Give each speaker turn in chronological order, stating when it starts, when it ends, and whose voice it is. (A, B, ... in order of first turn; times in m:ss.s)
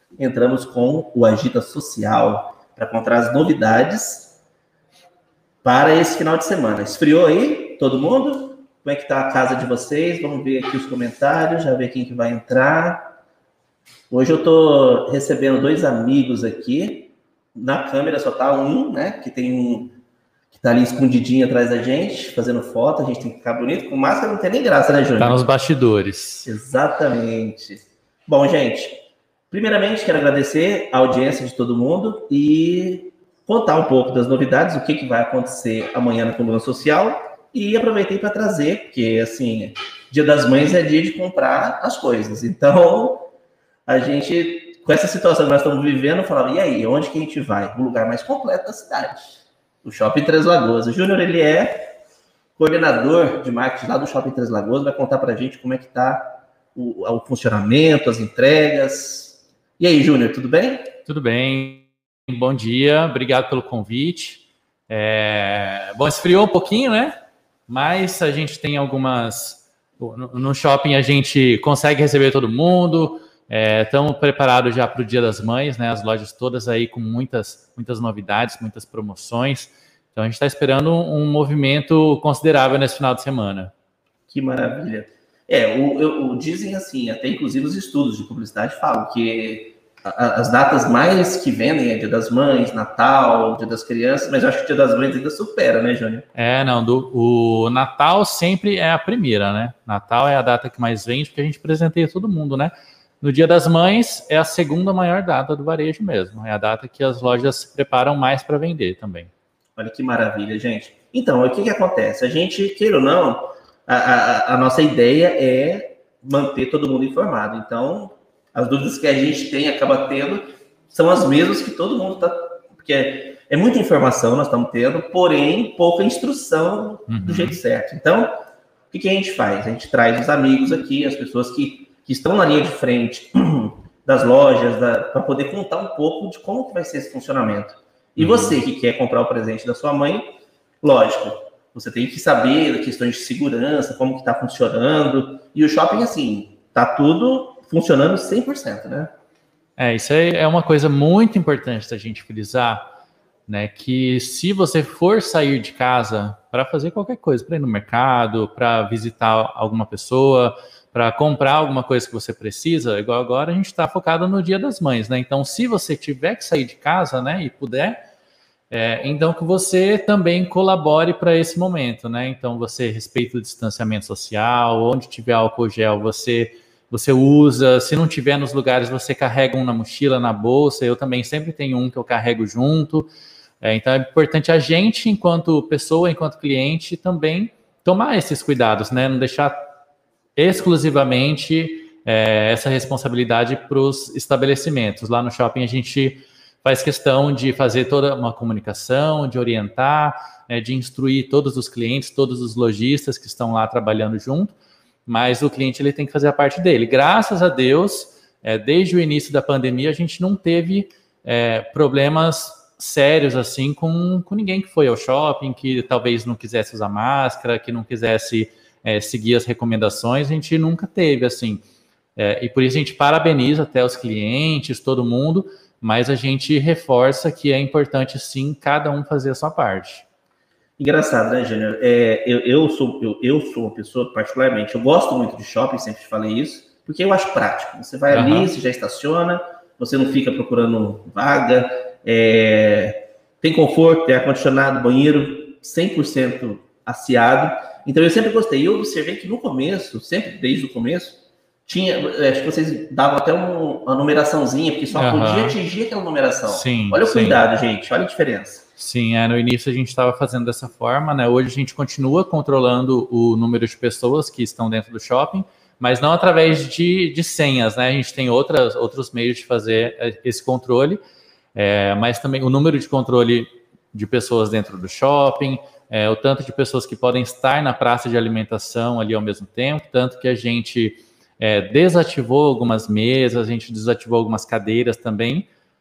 0:00.2-0:04.3 A
0:05.6-0:13.1 A
0:14.1-0:20.0 A
0:20.5-0:25.4 A
0:25.2-0:26.5 B
0:26.4-0:29.0 A
0:29.5-0:43.3 A
0:43.9-0:51.9 A
0:52.6-1:00.9 A
1:01.1-1:07.1 B
1:07.7-1:23.7 B
1:24.3-1:36.2 A
1:36.4-1:49.3 B
1:49.8-2:08.3 A
2:07.1-2:07.6 B
2:08.9-2:29.1 A
2:18.2-2:18.6 B
2:29.8-2:32.8 B
2:33.5-2:48.0 B
2:48.7-3:03.1 B
3:03.6-3:09.6 B
3:10.4-3:41.6 B
3:42.2-3:50.0 B
3:50.8-4:18.6 A
3:58.1-3:58.5 B
4:14.9-4:15.6 B
4:16.5-4:17.4 B
4:18.8-4:31.0 B
4:31.6-4:45.5 B